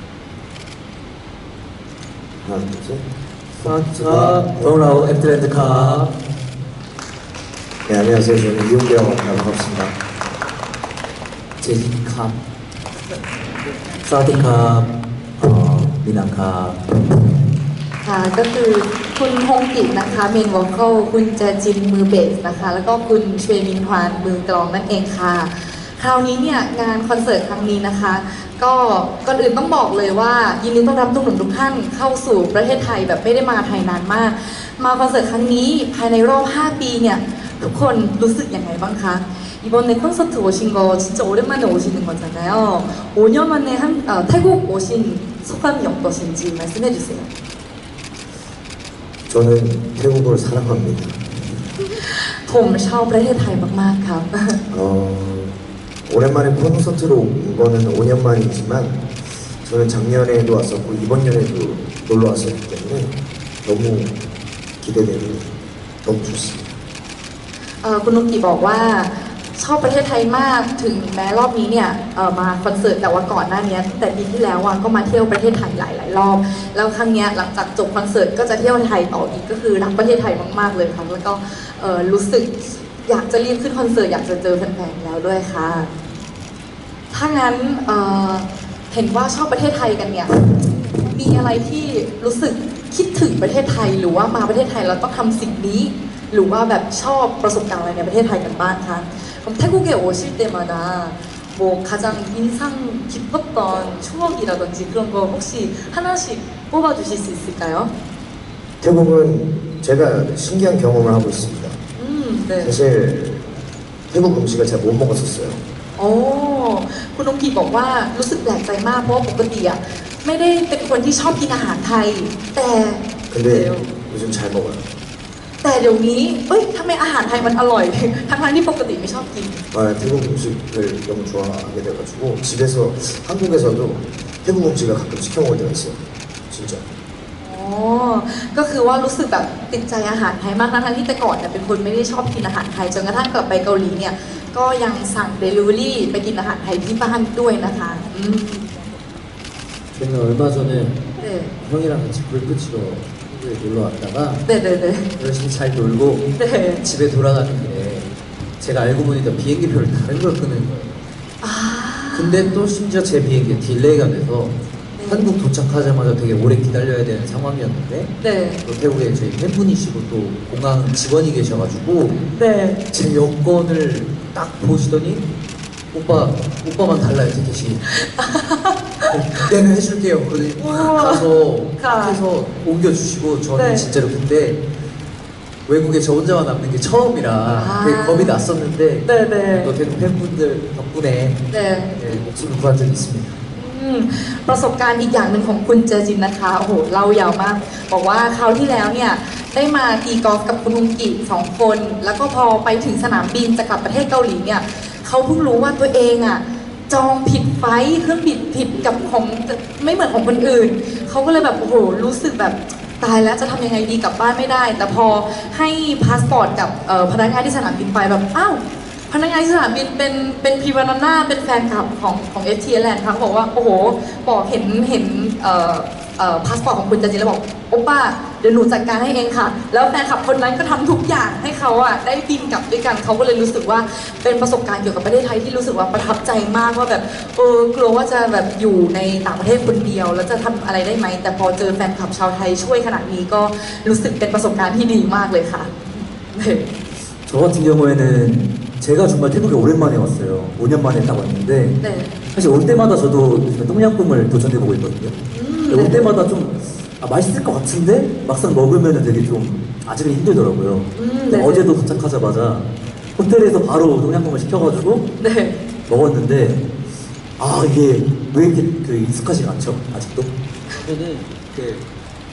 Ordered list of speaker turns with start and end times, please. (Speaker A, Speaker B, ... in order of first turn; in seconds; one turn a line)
Speaker A: 2.4-3.1
Speaker B: 3.6-6.1
Speaker A: 3.7-4.8
Speaker C: 4.1-6.1
Speaker A: 7.8-9.9
Speaker B: 11.6-12.4
Speaker C: 14.0-16.6
Speaker B: 15.9-16.7
Speaker D: 18.0-47.3
Speaker A: 49.3-51.3
Speaker D: 51.8-54.6
Speaker A: 54.7-55.5
Speaker A: 56.0-59.1
Speaker A: 59.6-64.1
Speaker A: 64.8-65.5
Speaker A: 66.0-66.7
Speaker D: 67.8-85.9
Speaker D: 87.1-90.4
Speaker D: 91.0-107.9
Speaker A: 108.8-111.8
Speaker D: 112.0-112.8
Speaker A: 112.6-113.5
Speaker A: 114.1-115.6
Speaker D: 116.0-123.9
Speaker A: 123.3-124.8
Speaker D: 125.6-129.6
Speaker A: 129.7-136.8
Speaker D: 137.4-148.7
Speaker B: 149.9-151.0
Speaker D: 151.2-151.5
Speaker B: 151.6-154.4
Speaker D: 154.4-155.1
Speaker B: 155.2-156.3
Speaker D: 156.4-156.8
Speaker B: 156.8-160.9
Speaker D: 161.4-162.6
Speaker B: 162.1-168.1
Speaker D: 164.9-165.3
Speaker D: 168.2-168.6
Speaker B: 168.7-172.2
Speaker D: 172.2-172.8
Speaker B: 172.9-175.2
Speaker B: 175.9-177.8
Speaker D: 177.9-179.2
Speaker B: 179.1-184.6
Speaker D: 180.6-181.3
Speaker D: 181.8-182.2
Speaker D: 183.6-183.9
Speaker B: 185.7-191.4
Speaker D: 187.5-188.4
Speaker D: 189.0-189.7
Speaker D: 191.5-192.0
Speaker B: 191.9-193.4
Speaker D: 193.5-246.7
Speaker C: 247.3-251.8
Speaker D: 251.8-252.2
Speaker C: 252.3-255.2
Speaker D: 255.3-256.1
Speaker C: 255.7-262.7
Speaker D: 260.9-261.7
Speaker C: 263.2-265.1
Speaker D: 265.2-265.6
Speaker C: 265.9-266.6
Speaker C: 267.4-270.3
Speaker B: 270.7-271.8